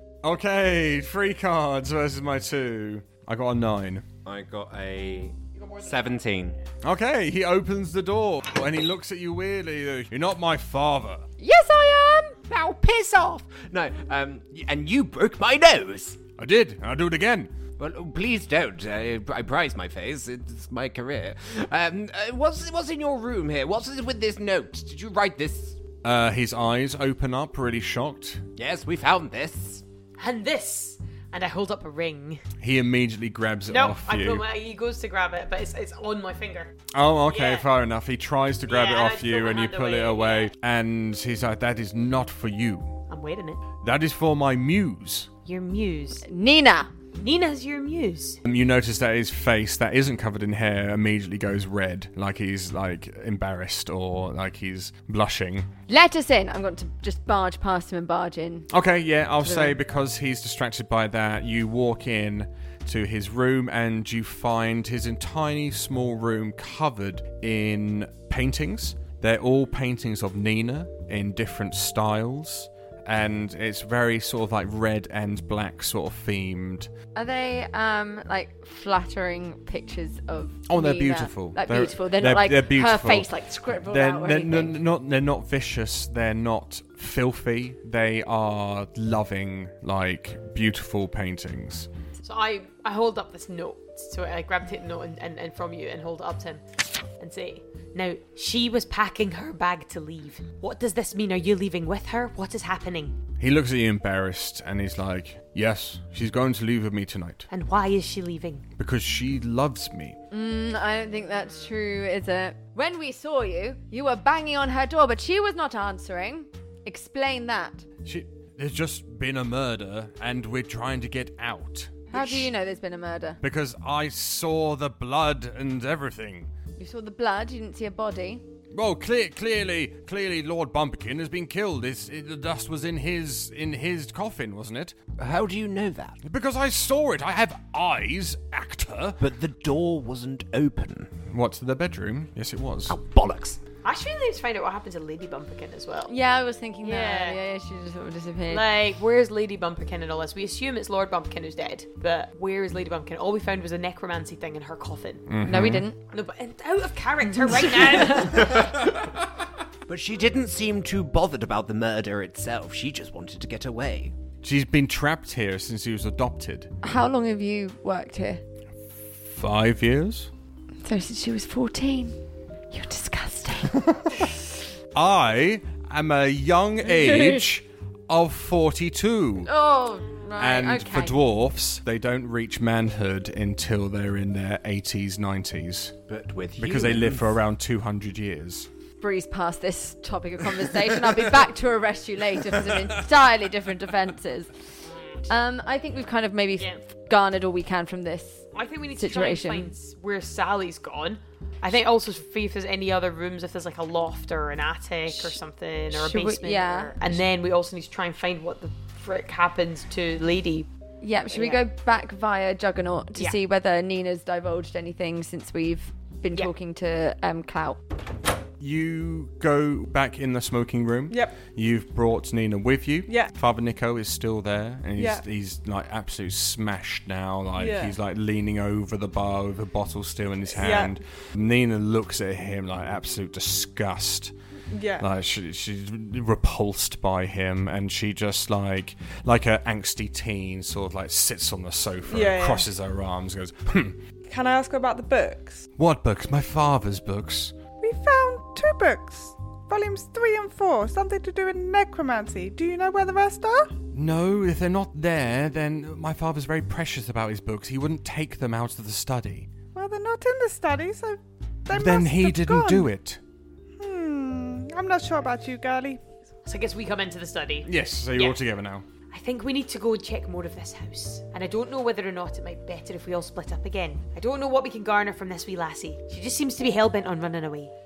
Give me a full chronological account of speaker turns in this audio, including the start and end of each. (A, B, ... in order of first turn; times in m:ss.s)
0:00.2-0:04.0 A
0:04.2-0:06.6 B
0:06.8-0:11.2 A
0:11.4-0:12.4 C
0:12.5-0:16.2 B
0:16.4-0:17.5 A
0:17.8-0:25.8 B
0:26.0-0:28.4 A
0:28.6-0:29.8 B
0:30.2-0:32.4 D
0:32.6-0:34.4 A
0:33.7-0:37.7 D
0:36.9-0:42.9 A
0:38.7-0:40.5 D
0:43.1-0:43.6 D
0:43.8-0:45.3 A
0:45.4-0:46.2 D
0:46.2-0:46.9 C
0:47.2-0:48.4 D
0:48.4-0:55.7 A
0:55.9-0:58.7 C
0:58.7-1:16.9 A
0:59.4-0:59.8 C
1:17.2-1:24.8 C
1:20.7-1:23.3 A
1:23.8-1:31.9 A
1:32.2-1:36.6 D
1:37.2-1:43.2 D
1:43.4-1:47.5 A
1:47.5-1:48.7 D
1:48.8-1:50.2 A
1:50.3-1:57.8 C
1:58.0-2:02.5 A
2:02.1-2:03.4 C
2:03.4-2:06.5 A
2:06.8-2:08.4 C
2:08.7-2:15.0 A
2:15.2-2:16.2 B
2:16.2-2:19.2 A
2:19.2-2:21.1 B
2:21.3-2:23.0 A
2:22.9-2:23.6 B
2:23.8-2:26.1 D
2:26.1-2:28.6 C
2:26.8-2:27.4 D
2:28.5-2:35.3 D
2:35.3-2:35.9 A
2:35.5-2:36.0 C
2:36.1-2:38.7 D
2:38.6-2:39.1 B
2:39.9-2:44.2 B
2:44.4-2:46.7 A
2:46.8-2:48.4 C
2:49.3-2:50.3 A
2:50.8-2:52.2 C
2:52.7-2:53.8 C
2:53.8-2:54.2 A
2:54.9-2:59.5 A
2:57.0-2:57.4 C
2:59.4-3:01.2 C
3:00.4-3:06.0 A
3:06.1-3:07.3 B
3:06.6-3:08.7 A
3:09.0-3:14.5 C
3:15.3-3:19.7 C
3:18.5-3:30.7 D
3:25.1-3:25.4 C
3:25.9-3:27.2 C
3:31.0-3:37.8 C
3:31.3-3:31.6 D
3:38.6-3:54.3 A
3:41.1-3:41.4 E
3:43.1-3:43.4 E
3:44.9-3:45.3 E
3:47.6-3:48.0 E
3:50.5-3:51.0 E
3:54.7-3:55.1 E
3:55.0-4:04.0 A
4:02.1-4:02.7 E
4:04.3-4:05.7 E
4:05.8-4:07.5 A
4:07.8-4:13.7 E
4:13.9-4:19.5 A
4:19.7-4:22.9 E
4:21.7-4:23.2 A
4:23.8-4:26.0 E
4:26.5-4:28.4 D
4:27.6-4:28.8 A
4:29.1-4:37.7 D